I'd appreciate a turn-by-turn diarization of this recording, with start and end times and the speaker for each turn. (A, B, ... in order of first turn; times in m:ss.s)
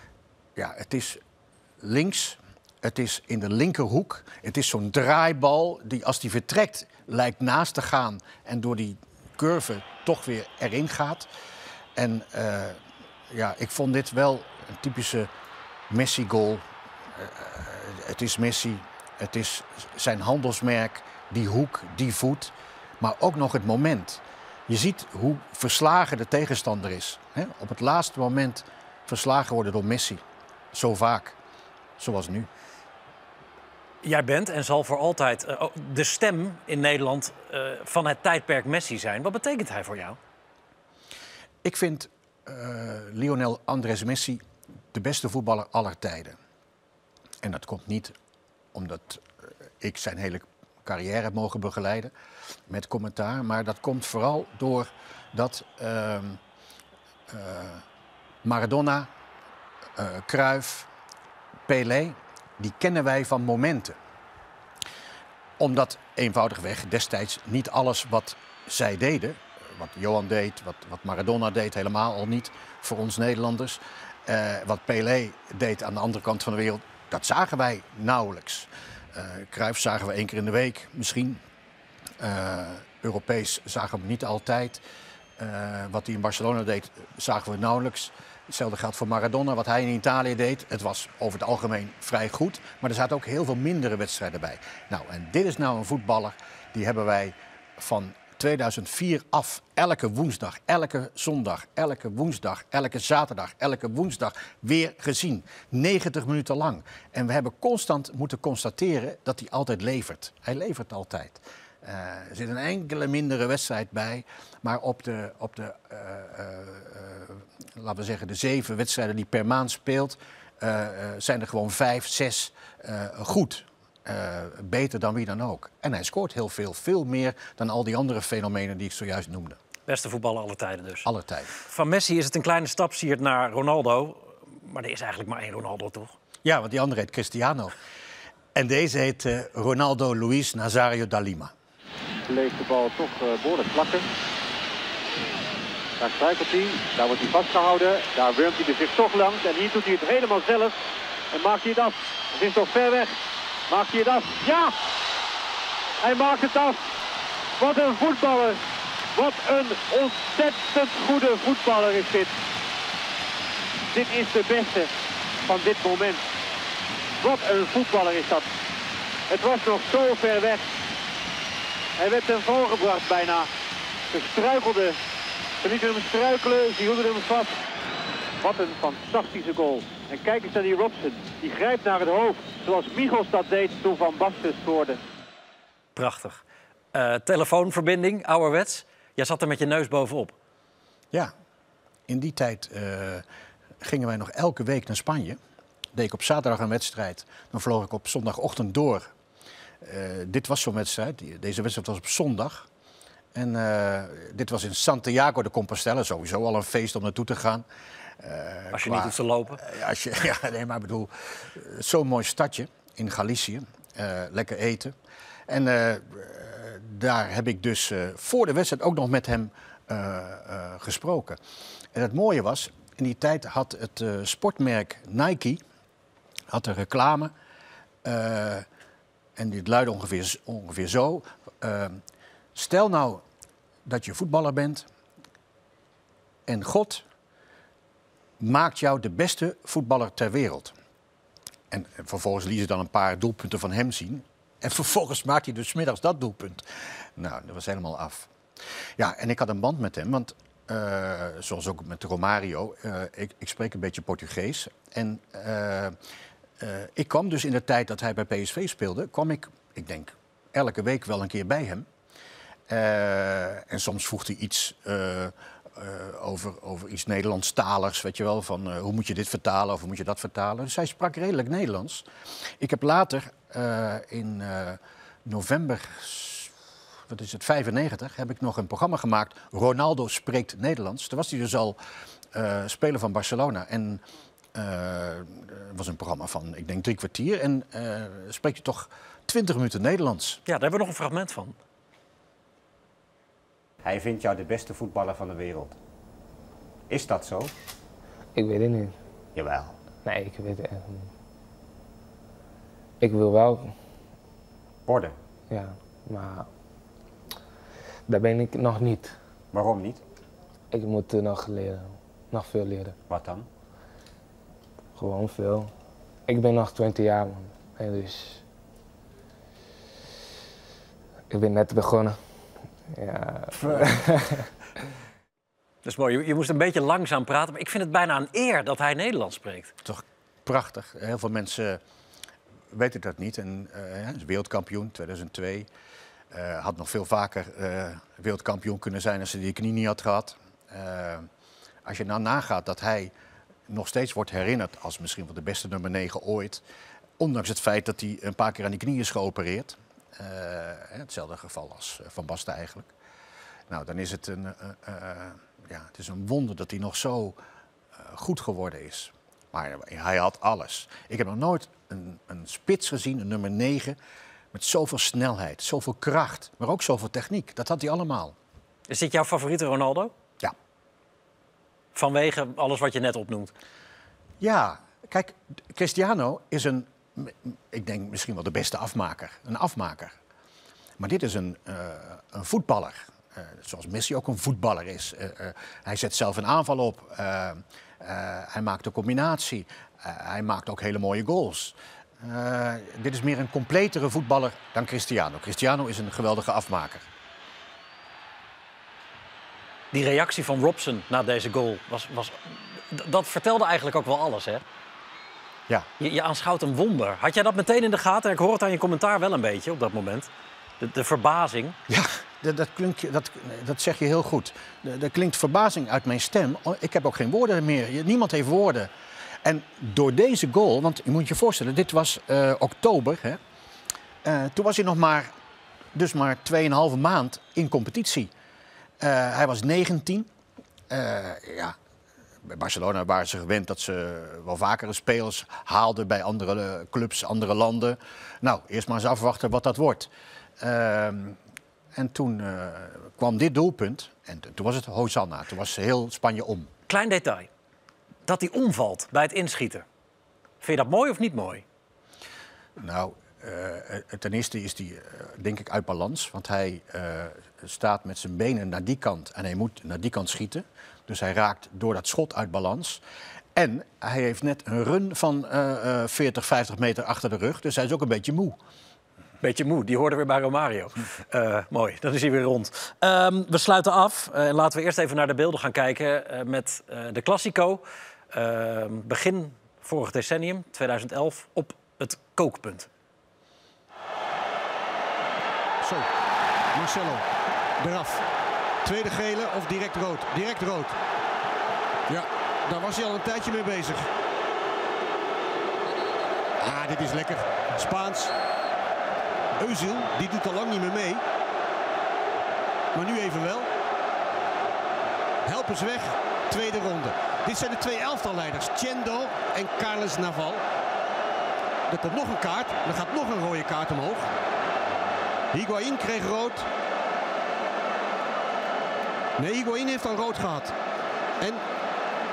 0:00.6-0:01.2 A
0:01.8-0:11.3 A
0:12.0-0:15.3 A
0:15.9-0:31.4 A
0:32.0-0:32.5 A
0:34.0-0:40.2 B
0:41.6-0:46.4 A
0:47.4-0:48.1 A
0:48.7-0:49.3 A
0:49.8-0:52.1 A
0:52.7-0:56.4 A
0:57.3-0:57.8 A
0:58.4-0:59.1 A
1:00.0-1:00.9 A
1:01.7-1:04.0 A
1:05.6-1:21.4 A
1:22.2-1:24.8 A
1:25.4-2:09.6 A
2:09.9-2:11.1 B
2:11.0-2:11.5 A
2:11.6-2:16.1 B
2:16.4-2:17.8 A
2:18.6-2:21.5 A
2:22.3-2:24.0 C
2:26.0-2:30.8 C
2:31.3-2:33.2 C
2:33.7-2:34.7 C
2:36.0-2:36.8 C
2:37.6-2:38.6 C
2:39.2-2:42.3 C
2:43.9-2:44.9 C
2:45.4-2:46.2 C
2:47.2-2:48.5 C
2:49.3-2:50.7 C
2:52.0-2:53.5 C
2:54.1-2:55.0 C
2:55.6-2:57.5 C
2:58.4-3:05.0 C
3:06.0-3:06.4 B
3:06.9-3:10.3 B
3:12.1-3:13.2 A
3:13.8-3:15.4 A
3:15.9-3:19.1 A
3:19.8-3:22.7 A
3:23.3-3:27.6 A
3:28.2-3:35.0 A
3:28.7-3:29.6 B
3:35.5-3:41.4 A
3:41.9-3:45.6 A
3:46.5-3:47.3 A
3:48.0-3:48.7 A
3:49.4-3:52.0 A
3:52.6-3:53.2 A
3:53.8-3:54.9 A
3:56.5-3:57.0 A
3:58.4-4:00.7 A
4:01.7-4:06.6 A
4:07.2-4:08.3 A
4:09.0-4:16.0 A
4:16.6-4:21.9 A
4:22.7-4:32.1 A
4:32.6-4:36.5 A
4:37.1-4:41.8 A
4:42.3-4:44.0 A
4:44.5-4:50.4 A
4:50.5-4:51.6 B
4:53.8-4:55.8 D
4:56.9-4:57.5 D
4:58.4-4:59.0 E
4:59.4-4:59.8 D
5:00.0-5:01.1 E
5:03.0-5:03.8 E
5:04.9-5:05.2 D
5:05.5-5:06.5 E
5:08.1-5:09.2 E
5:09.5-5:10.0 D
5:10.7-5:13.0 E
5:13.1-5:13.5 D
5:15.0-5:15.7 E
5:16.3-5:18.4 E
5:21.3-5:22.2 E
5:22.9-5:24.4 E
5:23.6-5:23.8 A
5:25.8-5:29.7 B
5:29.8-5:31.8 A
5:32.7-5:35.7 A
5:36.3-5:41.3 A
5:41.8-5:43.1 A
5:43.7-5:46.6 A
5:47.2-5:52.9 A
5:53.7-5:57.4 A
5:58.0-6:04.0 A
6:04.5-6:08.4 A
6:08.9-6:10.1 B
6:12.0-6:13.5 B
6:14.4-6:20.2 A
6:21.0-6:37.1 A
6:39.9-6:44.6 B
6:46.0-6:50.3 B
6:50.8-6:51.8 B
6:51.9-6:58.9 A
6:59.4-7:03.4 A
7:04.2-7:05.3 A
7:05.9-7:08.3 A
7:09.0-7:10.3 A
7:10.9-7:11.8 A
7:12.4-7:21.4 A
7:22.0-7:26.7 A
7:26.9-7:27.5 B
7:28.3-7:29.8 B
7:30.6-7:31.6 B
7:32.8-7:43.0 A
7:43.6-7:48.6 A
7:49.4-8:02.9 B
8:05.8-8:06.1 F
8:06.7-8:07.2 F
8:07.8-8:08.2 F
8:08.8-8:11.0 F
8:12.1-8:14.1 F
8:16.6-8:18.3 F
8:19.6-8:21.2 F
8:22.9-8:23.7 F
8:25.5-8:30.6 F
8:31.9-8:34.3 F
8:35.5-8:36.7 F
8:39.4-8:40.7 F